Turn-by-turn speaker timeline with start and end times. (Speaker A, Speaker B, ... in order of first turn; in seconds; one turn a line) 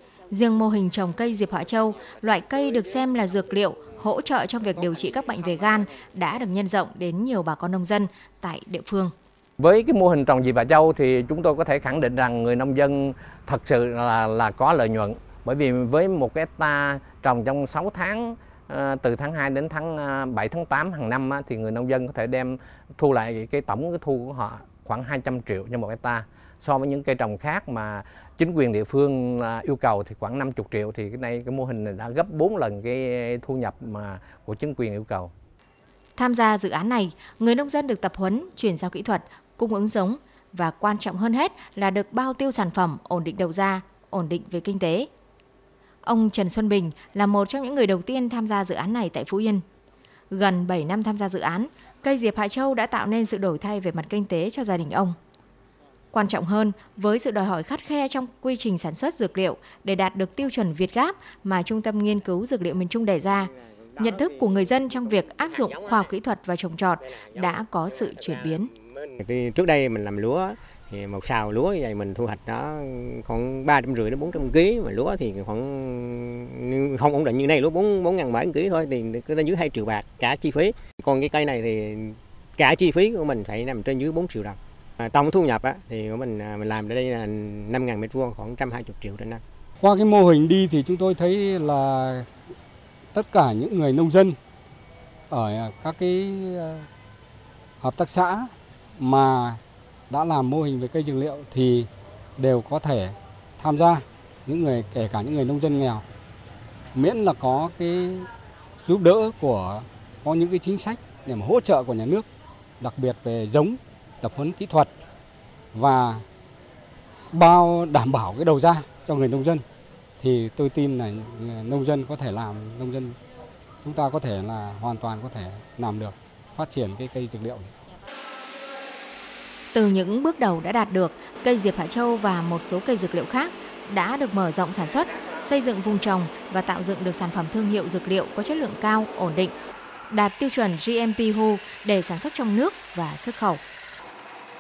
Speaker A: 0.3-9.1
Speaker B: 9.6-35.3
Speaker A: 36.2-45.1
Speaker A: 46.0-49.6
Speaker A: 50.3-55.2
Speaker A: 56.1-68.7
Speaker C: 69.2-89.4
Speaker D: 89.8-92.3
Speaker D: 93.1-94.4
Speaker D: 95.3-96.9
Speaker D: 97.8-106.0
Speaker D: 106.9-108.3
Speaker D: 108.8-112.2
Speaker D: 112.8-114.9
Speaker D: 115.7-116.2
Speaker D: 117.3-119.6
Speaker D: 120.2-123.2
Speaker D: 123.8-127.7
Speaker A: 129.7-139.5
Speaker A: 140.1-143.6